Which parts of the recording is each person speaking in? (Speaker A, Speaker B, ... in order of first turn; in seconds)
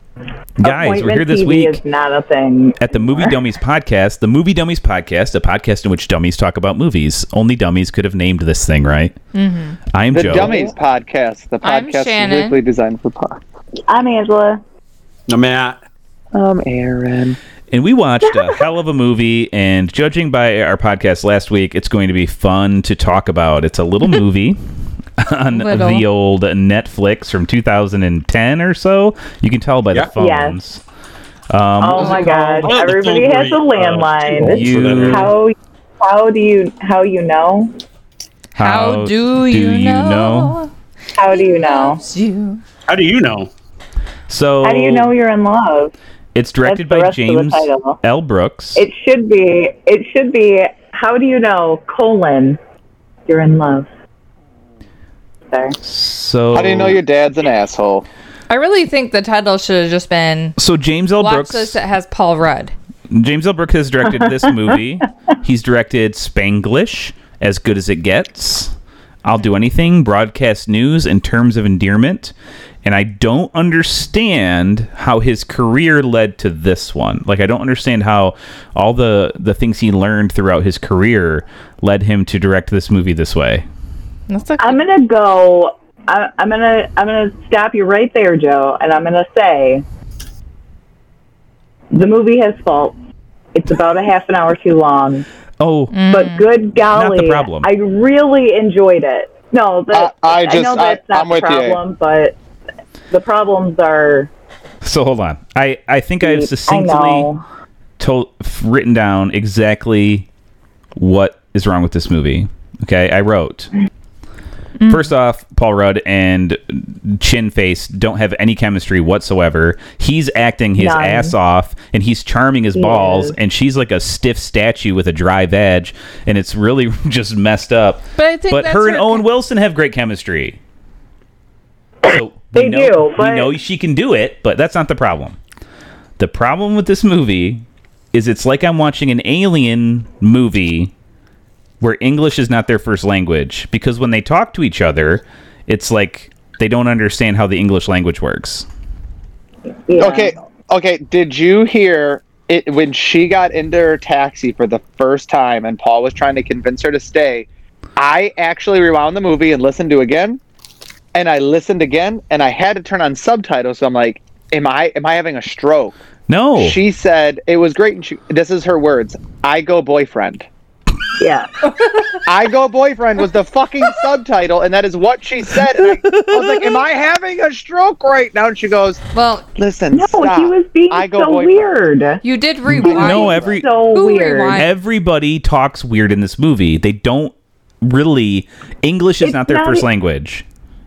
Speaker A: 0.6-1.8, 2.8-9.2, 9.9-10.6, 17.7-24.6, 25.2-30.8, 31.5-32.4, 34.4-35.3, 38.6-40.6, 44.3-45.1, 46.3-48.8, 55.8-57.0, 60.6-61.8, 63.1-68.7, 69.2-83.7, 95.6-95.9, 96.9-97.7, 104.8-107.3, 108.0-110.3, 111.0-113.7, 114.9-130.6, 132.1-135.4, 136.2-140.9, 141.8-148.7, 166.3-166.8, 175.8-176.8, 182.7-183.7, 184.5-190.4
Speaker B: 0.6-3.4, 10.4-10.7, 13.9-14.6, 30.2-30.6, 31.8-37.8, 41.2-42.0, 44.6-45.9, 46.7-48.0, 48.8-52.6, 53.3-53.9, 55.5-55.8, 84.6-89.8, 91.9-93.0, 93.5-95.2, 96.1-102.4, 103.1-104.3, 106.2-107.4, 120.8-121.3, 122.8-123.4, 132.5-133.5, 149.9-150.4, 171.2-171.5, 179.9-182.2, 182.8-184.7, 189.2-189.9
Speaker C: 9.3-9.8, 11.6-12.6, 25.5-26.1, 38.6-40.7, 41.3-42.6, 58.5-60.6, 61.2-62.7, 84.3-84.8, 95.9-96.5, 114.8-115.1, 128.2-129.3, 179.1-179.4, 182.2-184.7
Speaker D: 10.1-13.4, 16.3-17.4, 56.5-58.0, 99.9-101.8, 150.0-160.4, 161.1-166.0, 166.6-170.5, 172.2-179.0, 179.6-181.6
Speaker E: 15.3-15.8, 32.0-35.3, 42.9-43.5